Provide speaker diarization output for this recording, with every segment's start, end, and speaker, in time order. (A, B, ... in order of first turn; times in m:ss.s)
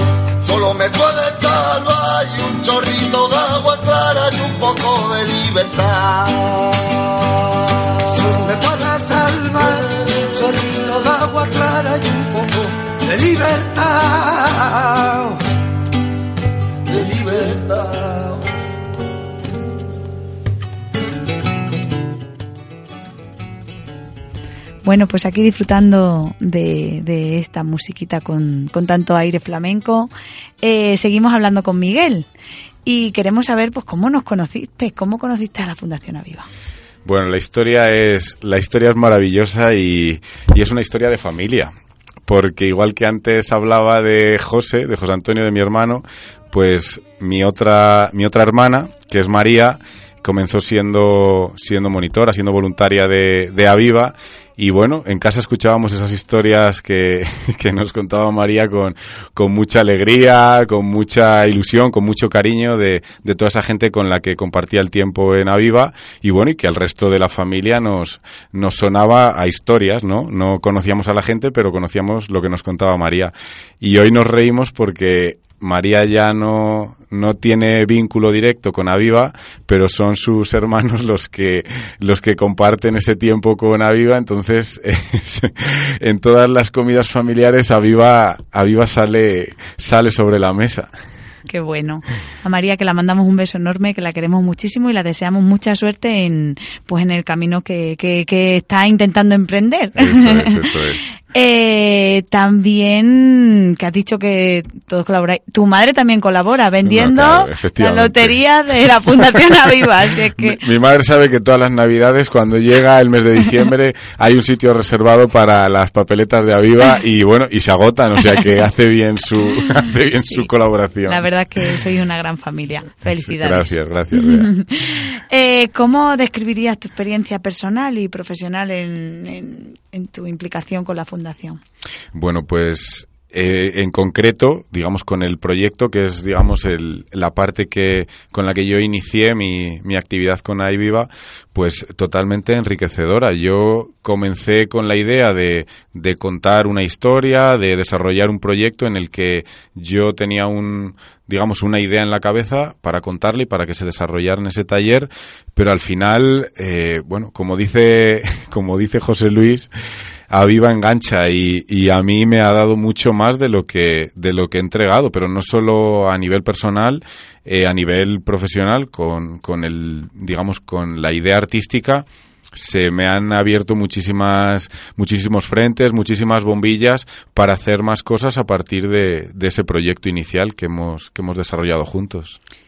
0:00.4-0:07.9 A
0:08.1-0:15.4 B
0:16.9-0:18.4 A
0:24.8-0:30.1 C
0:30.6-0:32.3 C
0:32.8-0:36.5 C
0:37.0-0:41.7 D
0:42.2-1:30.9 D
1:31.5-1:40.6 C
1:40.0-1:41.1 D
1:41.3-1:50.6 C
1:46.8-1:48.4 D
1:50.4-2:01.7 D
2:01.0-2:11.6 C
2:03.1-2:04.5 D
2:12.1-2:39.7 D
2:40.3-3:02.4 D